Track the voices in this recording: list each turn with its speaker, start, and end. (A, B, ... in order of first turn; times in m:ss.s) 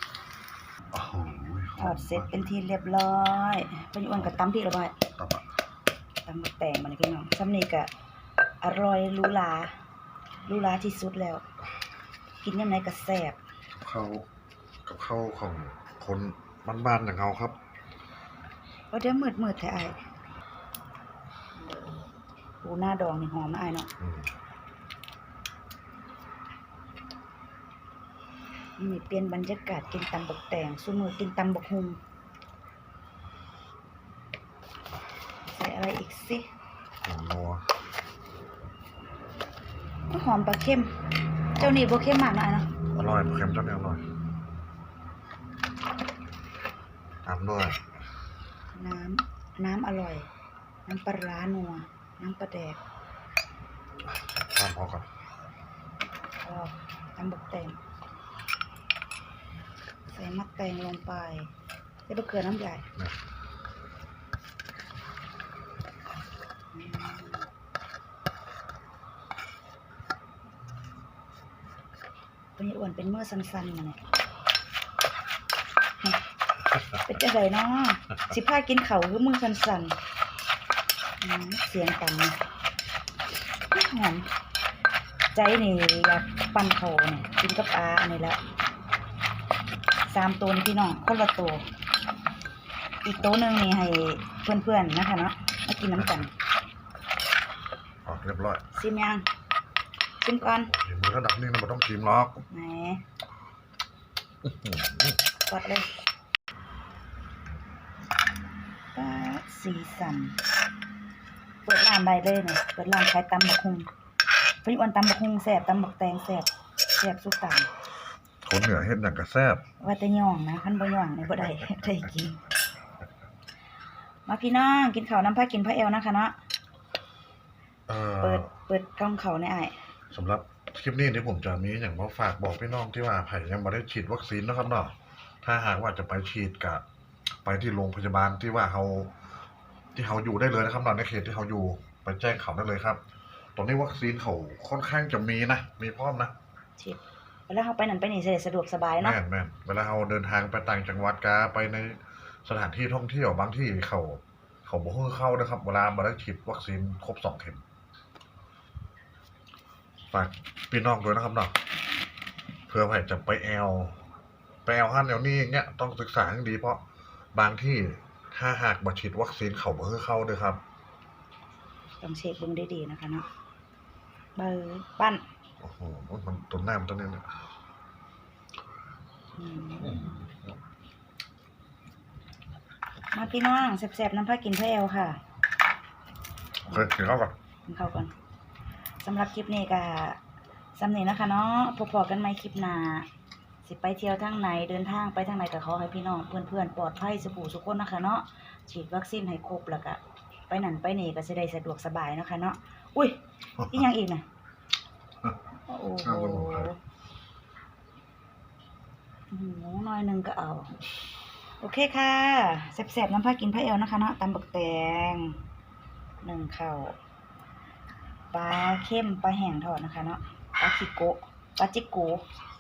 0:00.9-0:02.5 A
0:01.8-0:04.9 B
0:05.2-0:05.4 A
0:06.2-0:07.9 B
0:08.6-0:09.8 B
0:10.5-0:11.4 B
0:12.4-0:13.4 B
0:13.8-0:14.2 A
0:14.8-0:17.6 A
0:18.9-0:20.0 B
0:22.6-0:23.9 B
0:24.0-0:24.3 A
0:28.8-0:32.0 B
0:35.5-0:36.5 B
0:37.0-0:37.6 A
0:40.1-0:41.0 B
0:41.6-0:42.7 B
0:42.9-0:44.0 A
0:47.2-0:47.8 A
0:48.7-0:50.3 B
0:50.9-0:52.8 B
0:54.0-0:55.1 A
0:56.4-0:57.8 B
1:00.1-1:01.5 B
1:02.1-1:02.9 B
1:06.7-1:07.5 B
1:12.6-1:14.0 B
1:17.0-1:20.0 B
1:21.2-1:22.4 B
1:23.7-1:24.3 B
1:25.3-1:28.4 B
1:30.1-1:31.6 B
1:33.0-1:36.3 B
1:36.0-1:36.2 A
1:38.0-1:38.6 A
1:38.7-1:39.2 B
1:40.2-1:40.7 B
1:40.6-1:42.4 A
1:42.5-1:43.0 B
1:44.4-1:45.2 A
1:45.5-1:45.9 B
1:48.9-1:50.4 B
1:51.6-1:53.9 B
1:54.6-1:57.7 B
1:58.4-1:59.6 A
1:59.8-2:02.4 B
2:04.3-2:06.4 B
2:07.9-2:08.5 A
2:08.2-2:09.8 B
2:10.1-2:16.8 A
2:17.4-2:19.1 A
2:19.9-2:23.0 A
2:23.6-2:26.3 A
2:26.8-2:29.2 B
2:29.0-2:37.6 A
2:40.1-2:41.6 A
2:42.7-2:44.0 A
2:44.6-2:46.8 A
2:47.3-2:50.6 A
2:52.0-2:53.3 B
2:54.4-2:55.2 B
2:55.6-2:57.3 A
2:59.4-3:00.1 B
2:59.8-3:00.4 A
3:03.1-3:05.2 B
3:06.6-3:07.4 A
3:07.7-3:08.1 B
3:09.0-3:10.2 B
3:10.8-3:13.1 B
3:13.6-3:24.2 B
3:25.7-3:26.8 B
3:26.0-3:26.7 A
3:29.3-3:30.7 B
3:31.6-3:35.4 B
3:36.2-3:37.0 B
3:38.3-3:42.2 B